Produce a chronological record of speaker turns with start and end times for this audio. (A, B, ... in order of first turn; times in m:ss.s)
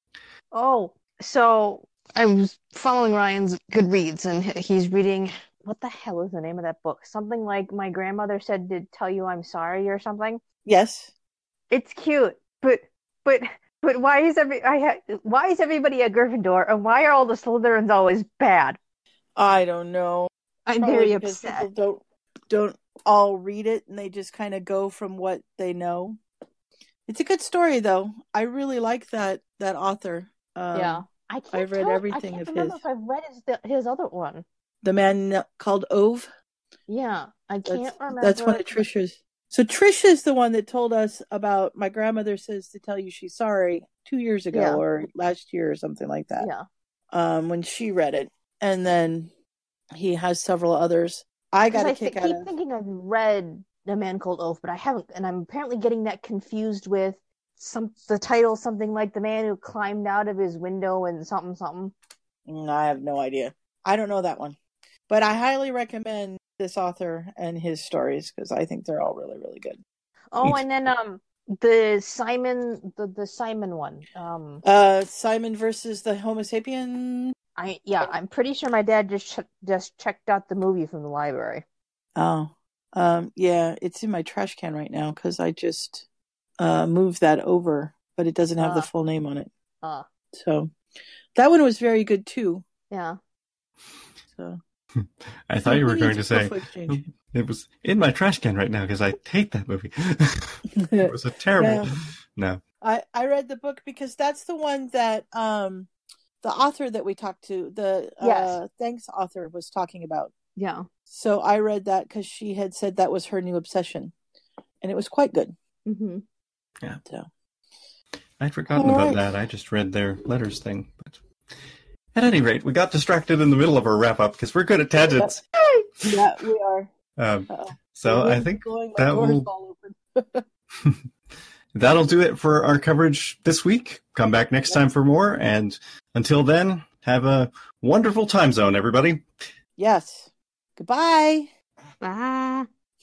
0:00.5-0:10.4 A
0:10.6-0:11.1 B
0:11.7-0:18.8 A
0:19.4-0:20.3 B
0:20.6-0:21.7 A
0:20.8-0:26.2 B
0:27.1-0:32.8 B
0:30.7-0:34.4 A
0:34.8-0:36.3 B
0:36.9-0:38.8 A
0:37.6-0:46.5 B
0:44.5-0:44.8 A
0:46.4-0:46.6 A
0:47.1-0:49.3 B
0:49.9-0:52.5 B
0:51.7-1:01.9 A
1:02.5-1:04.6 B
1:05.1-1:09.8 B
1:10.3-1:14.6 A
1:14.6-1:17.3 B
1:17.6-1:21.6 A
1:22.2-1:26.0 B
1:26.6-1:29.5 B
1:28.6-1:28.9 A
1:30.3-1:30.7 B
1:31.3-1:32.6 B
1:32.9-1:33.2 A
1:34.3-1:34.6 B
1:35.0-1:42.6 C
1:35.6-1:37.0 B
1:40.7-1:41.9 B
1:42.8-1:45.9 B
1:46.4-1:50.3 B
1:48.2-1:48.6 A
1:50.6-1:50.9 A
1:51.1-1:54.1 B
1:54.8-1:55.5 B
1:55.8-1:56.2 A
1:58.4-2:05.5 C
1:58.7-1:59.3 B
2:06.0-2:06.9 B
2:07.2-2:09.5 C
2:07.5-2:10.4 B
2:10.8-2:11.0 C
2:11.7-2:19.2 C
2:19.8-2:21.5 B
2:22.0-2:22.7 A